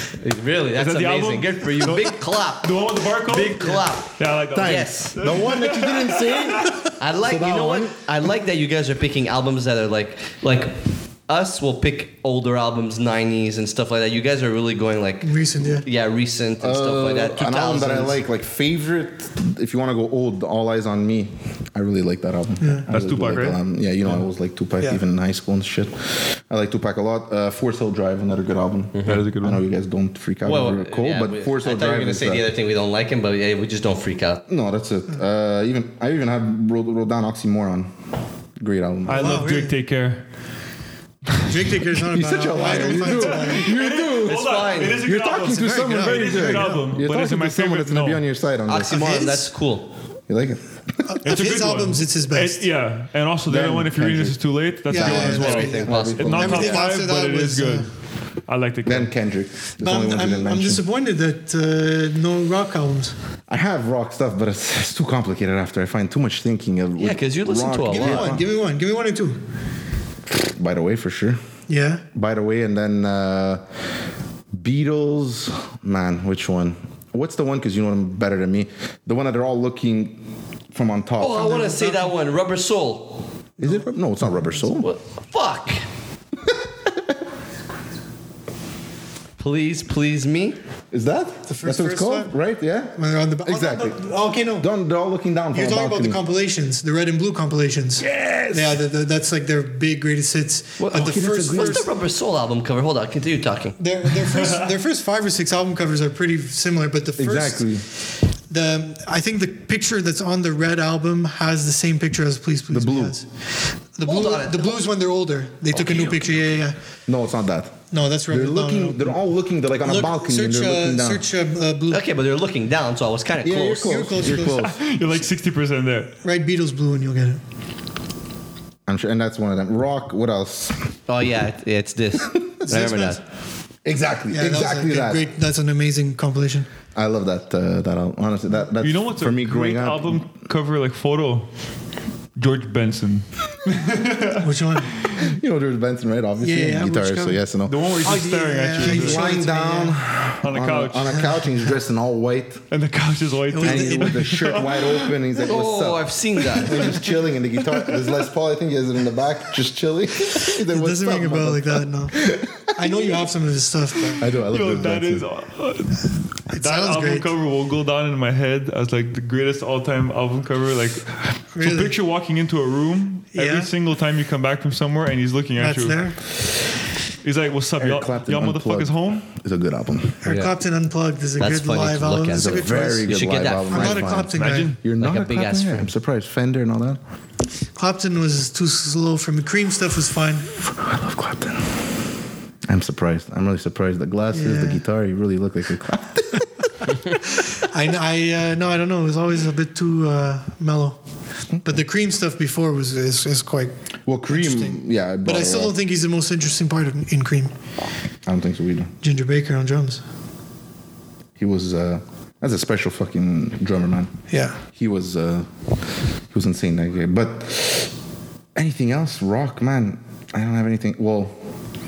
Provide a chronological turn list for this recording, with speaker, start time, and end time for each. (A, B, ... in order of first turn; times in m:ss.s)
0:00.2-0:05.2 A
0:00.8-0:06.7 B
0:04.5-0:08.0 C
0:07.0-0:18.2 A
0:15.2-0:15.9 D
0:16.6-0:32.5 C
0:22.9-0:23.6 B
0:28.9-0:29.2 A
0:29.0-0:29.6 B
0:30.4-0:34.4 A
0:34.5-0:37.9 C
0:38.6-0:39.4 C
0:39.1-0:40.2 B
0:39.1-0:39.8 D
0:41.4-0:43.7 D
0:42.1-0:49.4 C
0:42.7-0:48.2 B
0:44.1-0:45.0 A
0:45.3-0:46.9 D
0:48.7-0:49.9 A
0:50.3-0:51.2 C
0:51.1-0:52.7 D
0:51.2-0:57.9 B
0:53.5-0:56.8 C
0:54.9-0:57.9 D
0:55.2-0:56.8 A
0:58.5-0:59.1 B
0:58.8-1:00.8 C
0:59.8-1:03.1 D
1:03.5-1:08.4 C
1:07.0-1:08.4 A
1:07.9-1:09.4 D
1:10.3-1:11.4 C
1:11.7-1:12.0 D
1:12.1-1:13.6 C
1:14.5-1:20.2 C
1:20.7-1:21.6 C
1:21.2-1:23.3 A
1:21.3-1:22.1 D
1:23.6-1:24.9 C
1:23.6-1:23.9 D
1:24.8-1:25.9 A
1:26.4-1:27.0 C
1:29.4-1:30.6 A
1:30.9-1:34.0 C
1:31.5-1:32.3 D
1:33.0-1:34.7 D
1:34.6-1:36.2 C
1:35.5-1:41.9 D
1:38.0-1:38.8 C
1:40.8-1:43.8 A
1:40.9-1:41.9 C
1:43.8-1:47.8 D
1:44.2-1:44.7 B
1:47.2-1:47.8 C
1:48.5-1:53.3 D
1:52.7-1:53.2 C
1:54.0-1:56.8 D
1:54.0-1:54.8 A
1:55.7-1:56.3 C
1:57.1-2:01.2 C
1:57.9-1:59.2 D
1:59.8-2:02.0 D
2:01.9-2:04.0 A
2:03.4-2:04.9 C
2:03.8-2:04.7 D
2:04.4-2:06.1 B
2:06.2-2:07.4 D
2:08.9-2:10.9 C
2:11.1-2:13.2 A
2:12.2-2:12.5 C
2:12.6-2:13.2 D
2:13.8-2:15.2 C
2:14.3-2:16.7 D
2:16.9-2:20.2 C
2:18.8-2:21.5 B
2:22.4-2:24.4 B
2:24.4-2:25.1 D
2:25.1-2:27.9 C
2:26.4-2:27.4 D
2:27.6-2:29.3 B
2:28.0-2:30.0 D
2:28.8-2:32.6 C
2:30.4-2:31.3 B
2:32.7-2:35.1 B
2:33.5-2:34.3 D
2:33.6-2:43.0 C
2:35.3-2:37.0 A
2:37.7-2:38.2 B
2:40.5-2:44.9 D
2:44.2-2:45.3 C
2:44.5-2:56.1 B
2:46.5-2:47.3 D
2:51.6-2:52.0 D
2:53.3-2:53.7 D
2:55.6-2:56.2 D
2:57.2-2:59.3 B
2:57.8-3:00.2 C
3:00.2-3:04.7 D
3:00.3-3:00.5 A
3:01.4-3:04.2 A
3:02.3-3:07.0 C
3:04.3-3:04.8 B
3:05.0-3:05.9 A
3:07.8-3:10.5 D
3:10.6-3:11.8 C
3:12.7-3:16.4 C
3:14.3-3:14.8 D
3:17.1-3:21.0 D
3:21.6-3:23.7 D
3:24.1-3:25.8 C
3:24.3-3:27.5 D
3:28.3-3:28.9 C
3:29.0-3:30.0 D
3:31.4-3:34.1 C
3:34.3-3:34.6 D
3:34.8-3:35.5 C
3:36.3-3:37.9 C
3:38.6-3:41.4 C